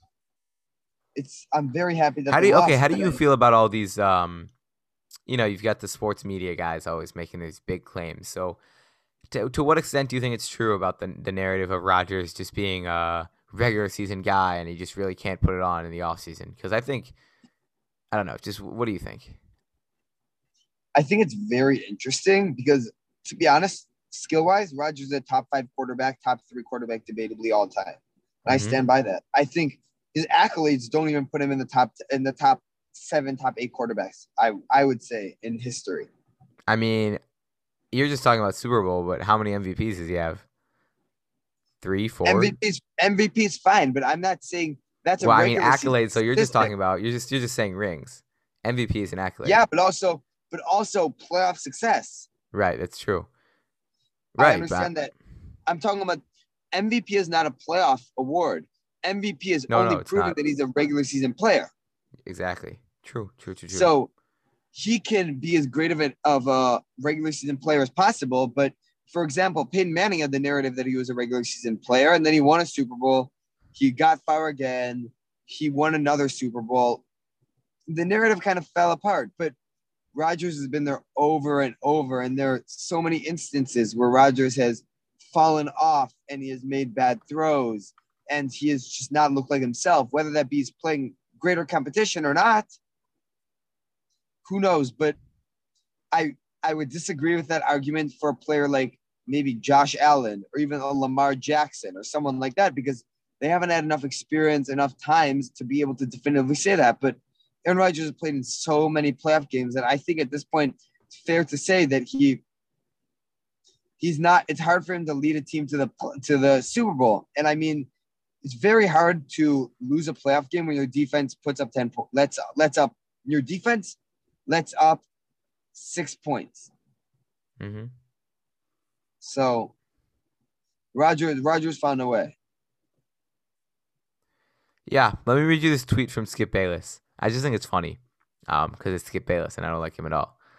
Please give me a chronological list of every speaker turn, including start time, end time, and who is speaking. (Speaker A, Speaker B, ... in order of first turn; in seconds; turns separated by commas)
Speaker A: 1.1-3.2, Speaker B: 2.3-4.5, Speaker B: 5.3-8.6, Speaker B: 9.3-17.1, Speaker B: 18.1-19.4, Speaker A: 20.9-36.1, Speaker B: 28.5-28.8, Speaker B: 36.7-37.2, Speaker B: 37.9-40.4, Speaker B: 41.8-42.5, Speaker A: 42.2-46.7, Speaker B: 45.2-49.6, Speaker A: 49.4-52.3, Speaker B: 52.5-53.3, Speaker B: 54.3-54.9, Speaker A: 54.4-55.1, Speaker A: 55.7-56.2, Speaker A: 56.7-61.7, Speaker B: 59.7-60.4, Speaker B: 62.2-63.9, Speaker A: 63.7-64.1, Speaker A: 64.7-77.0, Speaker A: 77.9-79.5, Speaker A: 80.1-92.7, Speaker A: 94.4-95.2, Speaker A: 96.1-112.4, Speaker A: 114.0-117.9, Speaker A: 118.4-125.0, Speaker A: 125.7-126.7, Speaker B: 127.6-127.9, Speaker A: 129.2-129.7, Speaker A: 130.9-132.3, Speaker B: 134.9-140.3